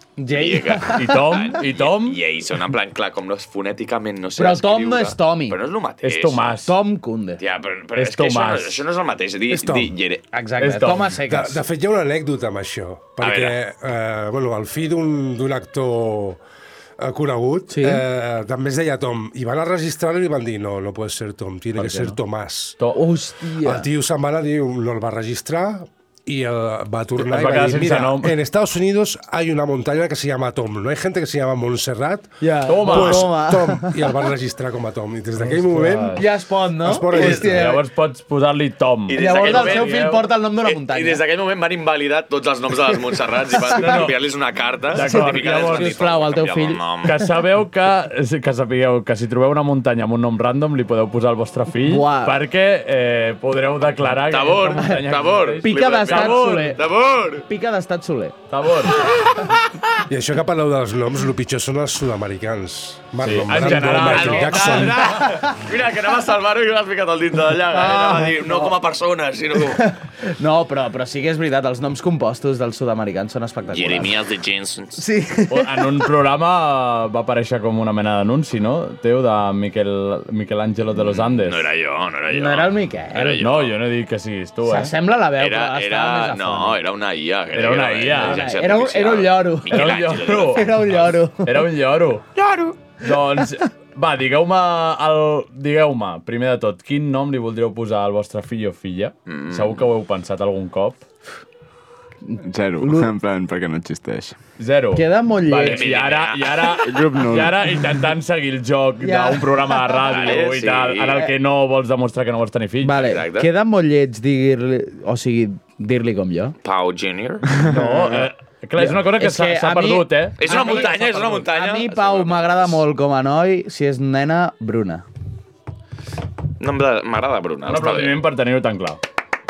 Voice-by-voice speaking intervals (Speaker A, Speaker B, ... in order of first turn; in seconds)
Speaker A: 0.2-1.1, 4.4-5.6, 6.7-7.4, 10.3-11.6, 17.7-18.0, 22.9-23.9, 32.4-34.1, 36.1-37.8, 39.1-41.2, 43.8-44.1, 45.0-46.8, 51.8-52.4, 55.6-56.8, 57.5-58.3, 65.0-65.5, 67.7-68.7, 69.8-74.2, 75.0-76.0, 82.3-83.4, 84.7-86.8, 88.2-89.9, 90.4-91.7, 102.8-103.1, 104.9-106.0, 109.0-110.2, 112.8-116.5, 118.8-125.0
Speaker B: 0.3-6.5, 7.4-10.2, 13.2-13.6, 39.1-47.2, 54.3-57.5, 59.0-59.5, 63.6-69.9, 73.7-75.0, 80.9-83.8, 85.4-91.2, 92.4-92.8, 99.3-99.8, 105.6-106.9, 110.1-111.2, 112.9-113.5, 116.6-117.5, 120.4-122.8, 126.6-128.2
Speaker C: 0.9-2.2, 6.0-6.8, 8.0-8.8, 10.6-11.2, 21.8-22.2, 27.2-28.4, 32.7-33.4, 35.4-36.3, 37.1-40.3, 43.7-44.1, 44.9-46.0, 47.0-56.8, 58.5-59.1, 63.2-65.0, 75.5-81.7, 83.2-84.9, 87.5-88.6, 89.7-92.2, 93.0-101.0, 104.6-113.1, 117.6-120.9, 127.7-129.0
Speaker D: 9.5-9.9, 11.2-16.4, 17.0-22.8, 23.6-36.2, 36.8-37.7, 60.1-65.1
Speaker E: 102.4-104.4, 106.8-107.6, 117.5-118.3